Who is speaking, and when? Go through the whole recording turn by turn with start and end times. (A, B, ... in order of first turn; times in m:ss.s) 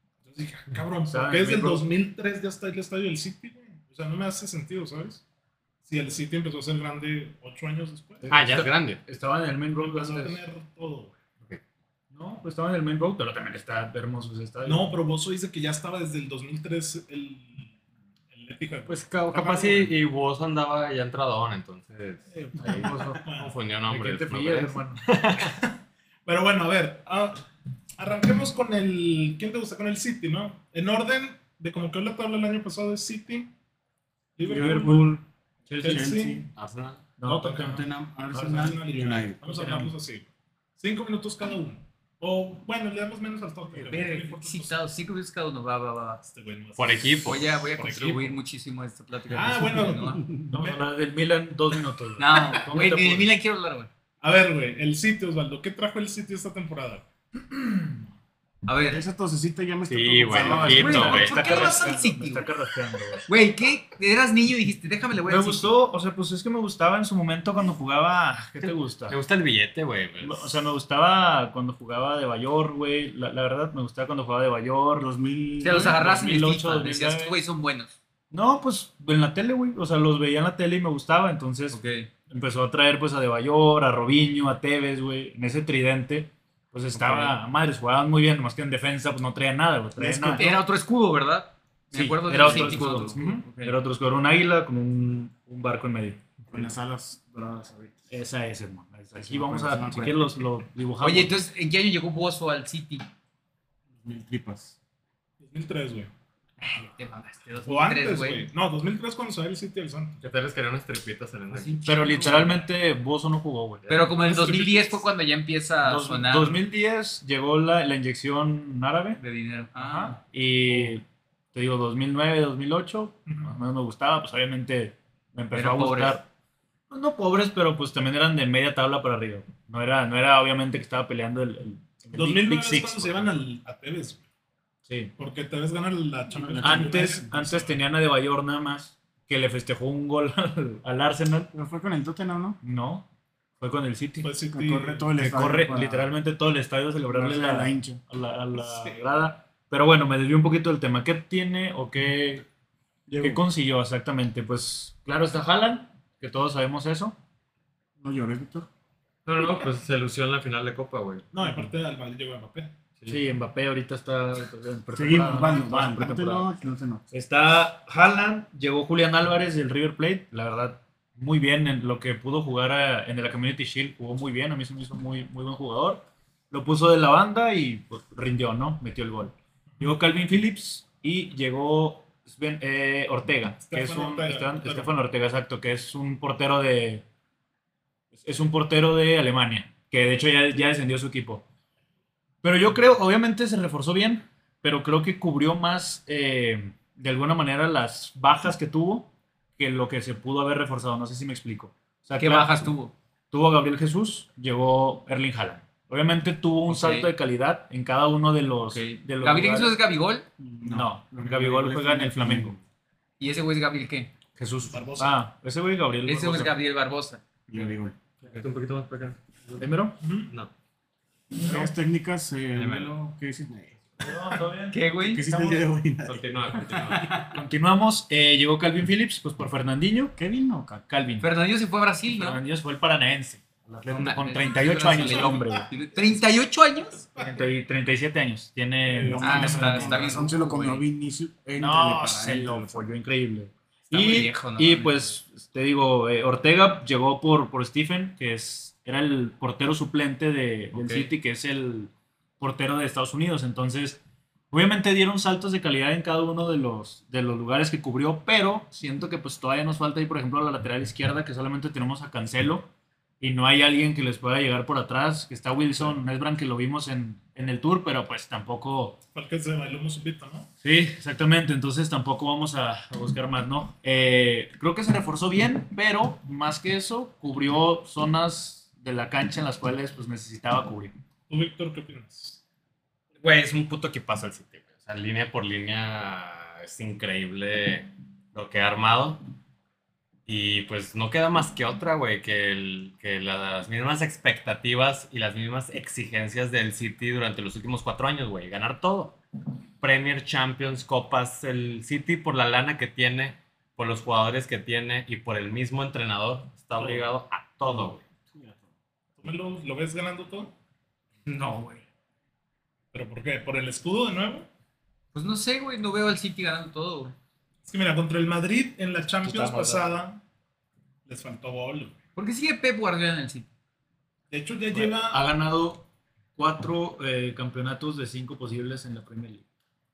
0:00.2-0:05.2 A
0:01.1-0:01.9 B
0:05.8-0:08.3 A
0:08.2-0:10.4 B
0:08.3-0:09.0 C
0:09.8-0:11.2 A
0:12.1-0:15.0 B
0:14.6-0:17.8 A
0:18.3-0:19.9 A
0:18.9-0:25.6 C
0:22.3-0:23.5 A
0:22.6-0:23.2 B
0:23.9-0:25.0 B
0:25.4-0:27.4 A
0:28.0-0:33.5 A
0:34.4-0:35.2 A
0:34.5-0:36.1 B
0:34.5-0:35.0 D
0:35.7-0:36.5 A
0:35.8-0:36.5 D
0:36.6-0:37.1 C
0:37.2-0:38.8 B
0:37.2-0:44.7 A
0:37.6-0:39.4 D
0:39.4-0:39.9 B
0:43.8-0:46.2 E
0:46.2-0:48.4 A
0:46.8-0:47.6 C
0:47.2-0:50.2 E
0:49.3-0:50.8 A
0:49.6-0:50.4 D
0:50.5-0:53.3 B
0:52.2-0:53.9 E
0:54.2-0:57.9 A
0:58.6-0:59.1 E
0:58.9-1:01.2 D
0:59.9-1:01.8 C
1:00.3-1:03.3 B
1:00.6-1:02.5 E
1:01.2-1:02.0 A
1:03.2-1:05.7 E
1:05.2-1:09.2 B
1:08.6-1:10.6 C
1:10.2-1:15.1 B
1:15.0-1:16.0 D
1:15.6-1:17.9 E
1:15.6-1:17.3 B
1:18.3-1:21.8 B
1:21.7-1:22.1 E
1:22.3-1:30.6 B
1:27.0-1:27.3 C
1:30.0-1:30.5 D
1:30.3-1:33.7 E
1:31.9-1:36.2 B
1:32.4-1:32.8 D
1:36.5-1:38.1 D
1:38.1-1:41.4 B
1:39.2-1:40.2 D
1:41.0-1:43.1 E
1:43.9-1:44.8 D
1:45.4-1:46.1 A
1:46.6-1:48.5 E
1:47.6-1:50.2 A
1:50.2-1:51.9 C
1:51.5-1:52.6 E
1:51.8-1:53.8 B
1:53.8-1:54.1 C
1:53.9-1:56.6 E
1:54.2-1:55.0 A
1:55.8-1:59.2 B
1:59.2-2:00.2 E
1:59.7-2:06.2 B
2:03.3-2:03.6 A
2:05.5-2:06.2 E
2:06.9-2:13.4 B
2:12.1-2:14.2 A
2:14.8-2:15.1 B
2:15.2-2:17.8 A
2:16.3-2:17.3 D
2:16.6-2:21.5 B
2:21.5-2:22.6 D
2:22.6-2:23.0 B
2:23.6-2:24.3 B
2:24.2-2:25.1 A
2:24.5-2:26.1 D
2:25.2-2:32.4 B
2:27.1-2:28.0 D
2:28.6-2:29.0 A
2:33.1-2:33.4 D
2:33.2-2:37.2 B
2:38.0-2:38.7 D
2:39.2-2:41.3 C
2:41.3-2:42.7 A
2:43.1-2:46.5 B
2:44.9-2:47.0 D
2:47.1-3:07.0 B
3:03.6-3:04.9 A
3:08.1-3:11.4 B
3:12.4-3:22.7 B
3:22.2-3:22.9 E
3:23.3-3:29.7 B
3:26.7-3:27.1 E
3:28.7-3:30.3 E
3:30.4-3:32.6 D
3:30.6-3:32.5 B
3:33.2-3:34.1 E
3:34.4-3:36.6 B
3:34.7-3:35.2 A
3:36.0-3:37.2 E
3:37.5-3:38.0 D
3:38.3-3:39.2 C
3:39.6-3:40.0 B
3:40.0-3:40.3 A
3:41.4-3:43.8 D
3:41.4-3:41.7 B
3:42.5-3:42.9 C
3:44.0-3:44.8 B
3:44.7-3:45.3 E
3:45.0-3:47.1 D
3:46.0-3:47.2 C
3:46.9-3:47.2 E
3:47.3-3:50.1 B
3:50.2-3:50.8 D
3:50.9-3:51.3 B
3:51.2-3:52.4 E
3:52.2-3:55.6 B
3:53.9-3:57.0 E
3:54.8-3:55.7 A
3:56.9-3:57.6 A
3:57.2-4:00.2 B
3:58.9-4:02.9 D
3:59.0-3:59.6 A
3:59.2-4:00.8 E
4:01.6-4:14.0 B
4:03.9-4:05.1 E
4:14.5-4:22.7 B
4:23.2-4:29.0 B
4:29.1-4:30.5 A
4:30.6-4:41.0 B
4:41.3-4:42.4 A
4:43.2-4:49.2 C
4:50.2-4:59.2 C
4:59.8-5:08.0 C
5:08.3-5:08.7 D
5:09.2-5:10.5 A
5:11.3-5:11.8 E
5:12.9-5:14.5 A
5:15.1-5:17.1 E
5:17.6-5:20.2 A
5:19.2-5:19.9 B
5:21.0-5:22.0 A
5:22.2-5:23.5 E
5:24.3-5:25.2 A
5:24.7-5:25.8 B
5:26.4-5:29.4 B